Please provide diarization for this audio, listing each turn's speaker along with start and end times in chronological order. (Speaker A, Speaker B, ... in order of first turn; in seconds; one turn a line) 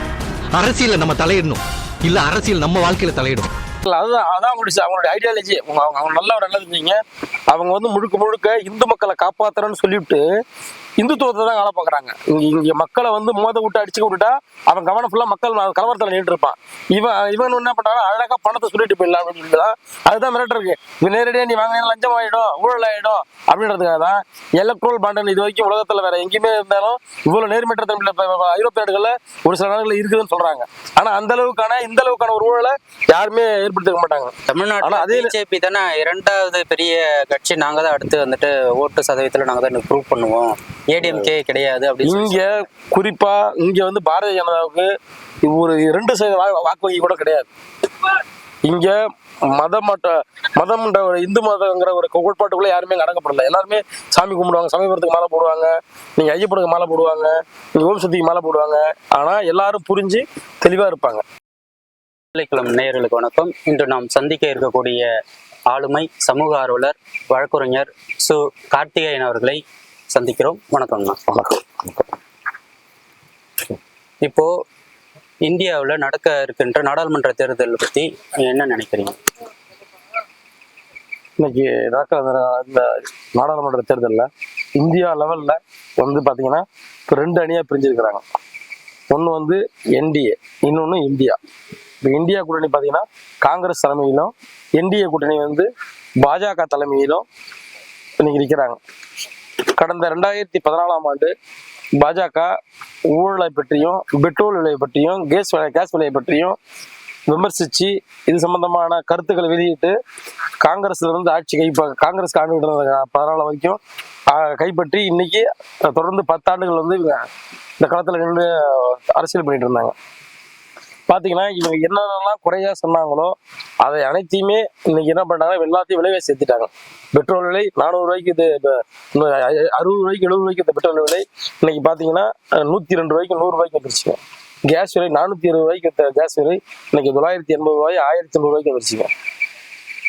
Speaker A: 0.5-3.5
Speaker B: 3.8-10.2
Speaker B: 11.0-35.3
Speaker C: 34.5-42.5
Speaker B: 42.0-44.9
Speaker B: 45.4-47.5
Speaker B: 48.6-61.2
Speaker C: 62.3-65.1
Speaker C: 65.7-69.6
Speaker C: 70.1-71.2
Speaker B: 71.3-72.0
Speaker C: 74.2-74.5
Speaker C: 75.5-79.2
Speaker B: 81.4-88.2
Speaker B: 89.1-91.4
Speaker B: 92.0-95.7
Speaker B: 96.2-97.2
Speaker B: 98.2-98.8
Speaker B: 99.8-101.3
Speaker B: 102.0-102.5
Speaker B: 103.1-106.6
Speaker B: 107.3-110.0
Speaker B: 110.6-117.2
Speaker B: 117.8-119.9
Speaker B: 121.1-139.1